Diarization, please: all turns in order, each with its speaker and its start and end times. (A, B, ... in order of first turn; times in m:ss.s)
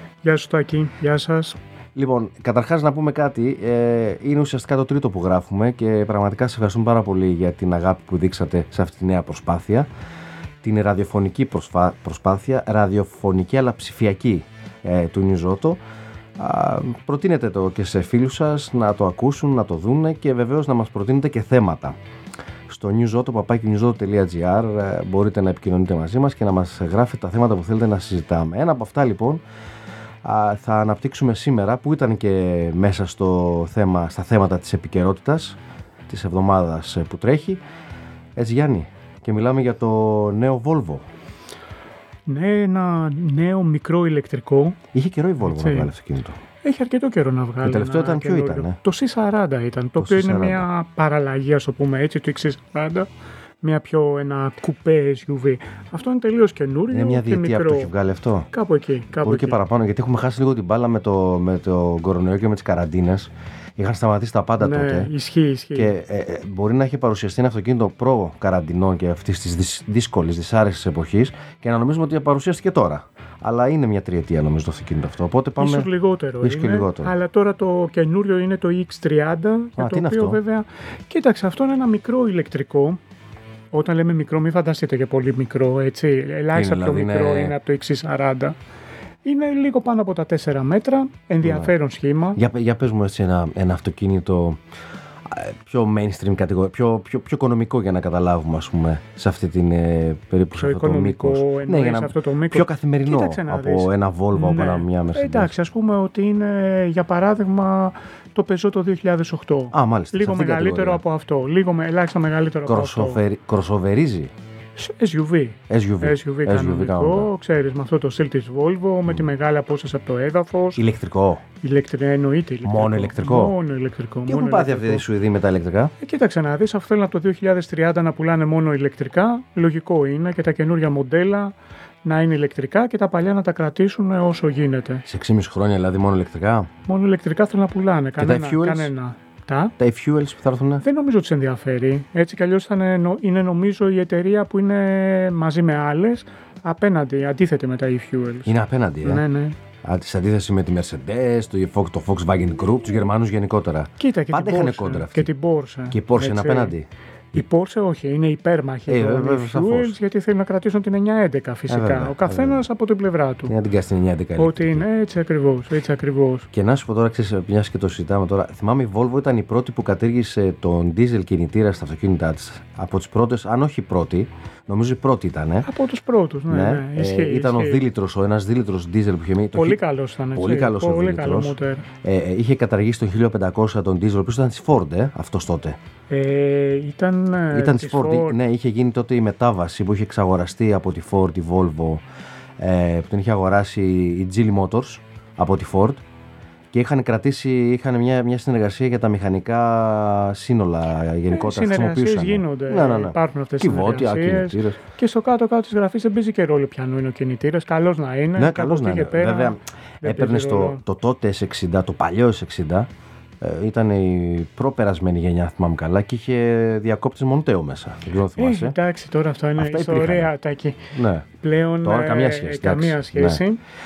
0:00.2-0:01.6 A
0:01.9-0:09.9 B
0:10.6-0:15.8 B
0:16.4-0:21.9 B
0:22.7-0:29.4 B
0:30.2-0:37.6 B
0:38.4-0:41.0 B
0:42.3-0:44.8 A
0:44.9-0:46.4 B
0:45.4-0:45.9 A
0:46.6-0:53.1 A
0:47.6-0:48.8 B
0:50.0-0:50.6 B
0:53.6-0:57.9 A
0:56.9-0:58.5 B
0:58.5-0:59.6 A
0:59.2-1:05.1 B
1:04.6-1:05.9 A
1:05.7-1:15.9 B
1:15.6-1:23.0 A
1:16.4-1:17.1 B
1:19.8-1:20.4 B
1:23.7-1:28.6 A
1:26.5-1:27.5 B
1:29.2-1:32.4 A
1:31.4-1:31.7 B
1:32.4-1:34.6 B
1:35.3-1:45.5 B
1:40.6-1:53.2 A
1:49.7-1:51.0 B
1:52.6-1:54.3 B
1:54.8-2:00.8 A
1:55.7-1:57.3 B
2:00.8-2:01.4 B
2:01.6-2:05.0 A
2:02.6-2:03.6 B
2:04.2-2:05.9 B
2:06.0-2:15.0 A
2:15.1-2:16.7 B
2:16.9-2:19.7 A
2:18.2-2:18.9 B
2:19.8-2:20.8 B
2:20.8-2:29.6 A
2:28.4-2:29.2 B
2:29.8-2:35.3 B
2:34.0-2:36.7 A
2:35.9-2:37.4 B
2:37.3-2:43.5 A
2:38.9-2:40.0 B
2:41.7-2:42.7 B
2:43.5-2:44.8 B
2:44.4-2:46.5 A
2:46.5-2:55.7 B
2:55.6-2:57.8 A
2:56.5-2:59.8 B
2:59.5-3:01.8 A
3:00.3-3:05.8 B
3:06.1-3:08.4 A
3:07.5-3:12.0 B
3:12.6-3:16.0 B
3:16.7-3:24.8 B
3:21.3-3:30.8 A
3:28.4-3:32.9 B
3:33.4-3:38.8 B
3:38.4-3:40.8 A
3:39.6-3:40.3 B
3:40.9-3:41.3 B
3:41.4-3:43.6 A
3:41.8-3:43.4 B